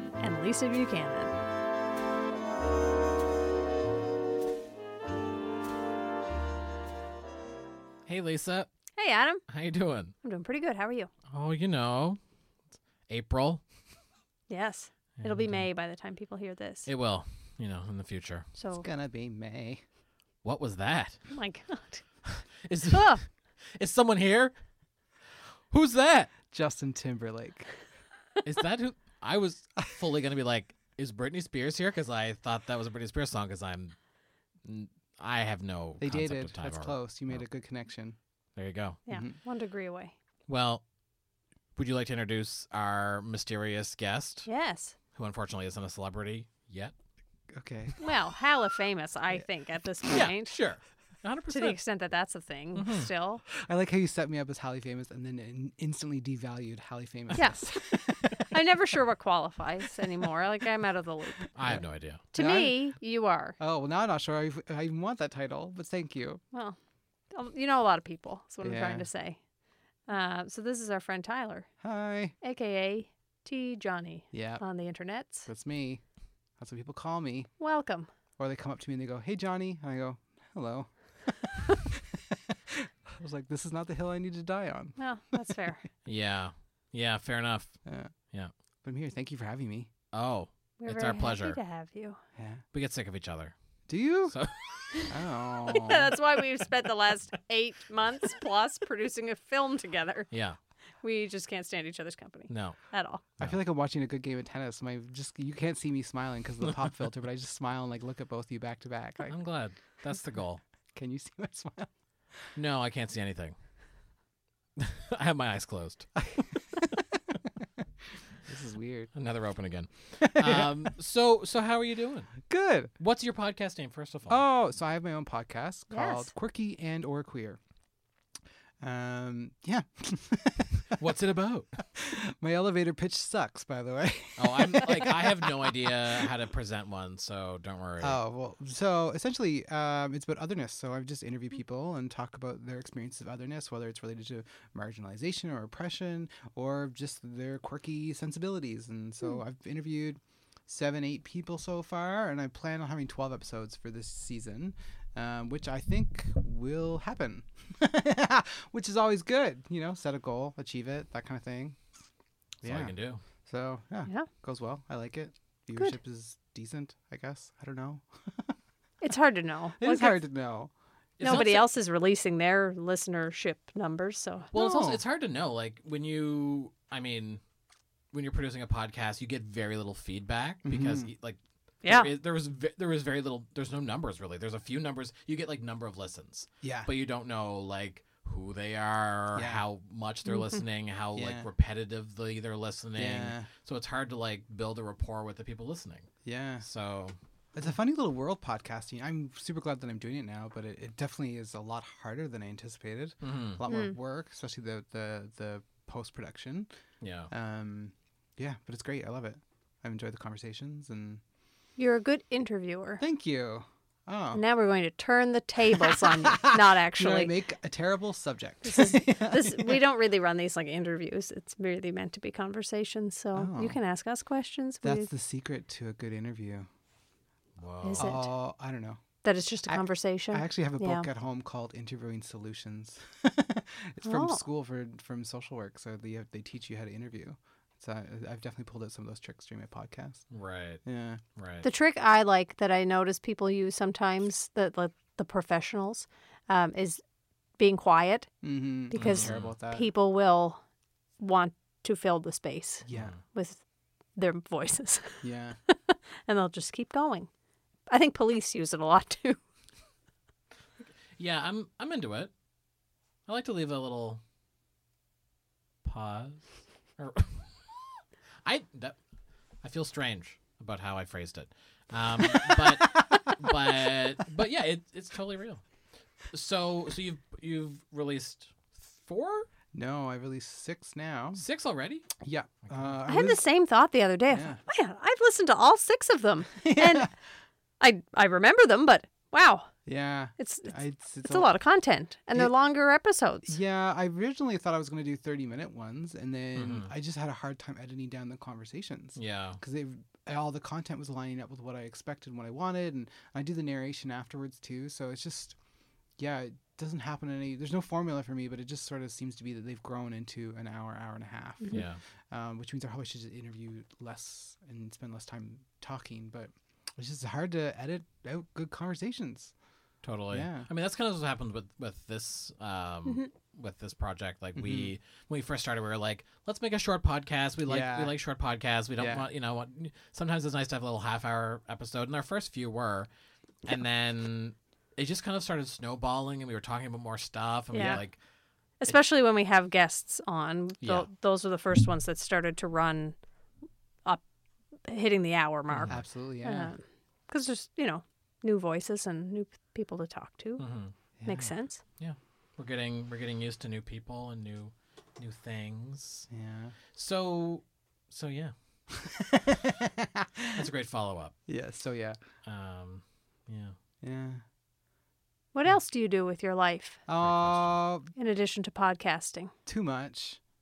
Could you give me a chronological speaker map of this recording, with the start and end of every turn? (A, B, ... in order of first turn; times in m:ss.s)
0:00.2-0:01.3 A
0:08.1-0:08.7 B
0:09.0-0:09.4 A
0:09.5-0:10.1 B
0:10.2-0:11.1 A
0:11.3-0:12.2 B
0:13.1-0:13.6 B
0:14.5-0:16.9 A
0:15.2-0:15.6 B
0:16.8-0:18.5 B
0:18.6-0:18.8 A
0:18.7-0:19.8 C
0:20.4-0:21.2 B
0:21.3-0:22.0 A
0:22.2-0:24.5 B
0:22.9-0:23.2 A
0:25.7-0:26.3 B
0:26.5-0:27.7 C
0:28.4-0:33.9 B
0:34.6-0:37.4 B
0:36.0-0:38.2 C
0:38.6-0:39.0 B
0:39.1-0:40.1 A
0:39.1-0:39.4 C
0:40.5-0:40.8 B
0:41.8-0:44.5 B
0:44.5-0:45.0 A
0:45.1-0:46.9 B
0:47.5-0:48.0 C
0:48.0-0:50.6 A
0:50.1-0:51.8 B
0:51.5-0:53.4 A
0:52.8-0:53.1 B
0:53.5-0:58.6 C
0:57.3-1:01.5 A
1:01.6-1:02.2 B
1:01.6-1:02.9 C
1:02.3-1:03.6 A
1:03.6-1:06.4 C
1:06.5-1:06.8 A
1:07.3-1:09.4 A
1:08.6-1:09.1 C
1:10.1-1:11.7 A
1:11.8-1:12.4 C
1:12.4-1:15.5 A
1:14.3-1:14.6 C
1:15.4-1:16.0 C
1:16.6-1:17.5 C
1:17.6-1:18.1 A
1:18.4-1:25.6 C
1:25.0-1:25.8 A
1:26.0-1:27.8 B
1:27.8-1:28.1 C
1:28.8-1:29.9 C
1:30.1-1:31.6 B
1:30.8-1:32.2 A
1:32.4-1:32.6 C
1:32.7-1:33.5 B
1:33.9-1:34.3 C
1:34.3-1:35.1 B
1:35.1-1:36.1 C
1:35.6-1:40.3 A
1:40.3-1:40.6 B
1:41.0-1:43.2 A
1:42.5-1:42.8 B
1:43.4-1:49.3 C
1:49.3-1:50.6 B
1:50.9-1:51.9 C
1:52.6-1:53.6 B
1:54.8-1:56.3 B
1:56.2-1:56.9 C
1:58.4-1:59.1 C
1:59.1-2:02.5 B
2:00.2-2:00.8 C
2:02.5-2:02.9 C
2:03.0-2:04.4 B
2:04.3-2:07.6 C
2:05.9-2:06.3 A
2:08.8-2:11.1 C
2:11.0-2:11.7 B
2:11.8-2:16.3 C
2:14.4-2:18.2 B
2:18.0-2:41.8 C
2:42.6-2:42.9 C
2:42.6-2:43.2 B
2:43.4-2:48.6 C
2:49.0-2:50.2 A
2:49.8-2:50.7 C
2:51.2-2:51.7 B
2:51.2-2:54.5 A
2:54.5-2:55.0 C
2:54.5-2:57.4 B
2:58.1-3:16.1 B
3:00.6-3:01.1 C
3:06.6-3:06.9 C
3:09.3-3:09.6 C
3:10.3-3:10.6 A
3:11.2-3:11.5 C
3:13.0-3:13.5 C
3:16.2-3:16.6 C
3:16.6-3:17.2 B
3:17.6-3:26.7 C
3:23.2-3:23.6 B
3:23.7-3:24.0 A
3:27.0-3:27.3 B
3:27.3-3:31.2 C
3:31.8-3:33.0 A
3:33.0-3:34.4 C
3:34.3-3:37.3 A
3:35.8-3:39.8 C
3:38.6-3:45.1 A
3:43.4-3:43.8 C
3:44.8-3:46.7 C
3:47.6-3:48.2 B
3:47.8-3:48.3 A
3:48.0-3:49.0 C
3:49.2-3:51.1 A
3:49.7-4:00.3 C
3:54.0-3:54.4 A
4:00.3-4:00.8 B
4:00.8-4:01.2 C
4:01.4-4:01.6 B
4:01.6-4:07.0 A
4:07.6-4:08.3 A
4:08.4-4:09.9 C
4:08.9-4:10.6 A
4:09.0-4:09.5 B
4:11.2-4:13.6 A
4:12.9-4:13.2 C
4:12.9-4:13.2 B
4:14.2-4:17.3 A
4:15.2-4:15.6 C
4:17.9-4:19.4 A
4:21.2-4:22.3 B
4:23.3-4:24.2 B
4:25.8-4:29.0 B
4:29.6-4:35.6 B
4:32.2-4:33.9 C
4:36.3-4:39.5 B
4:39.7-4:41.4 C
4:41.4-4:42.1 B
4:42.2-4:43.4 C
4:43.1-4:47.1 A
4:44.3-4:44.6 C
4:46.6-4:47.1 C
4:47.8-4:49.7 A
4:49.8-4:51.5 C
4:50.4-4:53.6 A
4:53.4-5:05.6 C
4:56.5-4:56.9 B
4:59.2-4:59.6 B
5:06.2-5:19.5 C
5:11.7-5:12.0 B
5:20.0-5:33.1 B
5:20.3-5:20.7 C
5:24.6-5:24.9 C
5:27.6-5:28.1 C
5:29.0-5:29.3 C
5:33.6-5:38.2 B
5:37.7-5:38.0 A
5:37.8-5:38.0 C
5:38.8-5:43.2 A
5:40.8-5:41.1 B
5:44.9-5:50.6 A
5:45.7-5:46.7 C
5:50.6-5:50.9 B
5:51.2-5:51.5 C
5:51.2-5:51.8 A
5:52.0-5:56.3 B
5:56.3-5:56.8 C
5:56.9-5:58.5 B
5:58.9-6:00.7 C
6:00.5-6:01.4 B
6:01.5-6:02.2 C
6:02.4-6:03.8 B
6:04.0-6:04.4 C
6:05.5-6:07.0 A
6:07.1-6:08.1 C
6:07.2-6:07.8 B
6:08.1-6:09.5 A
6:09.6-6:10.4 C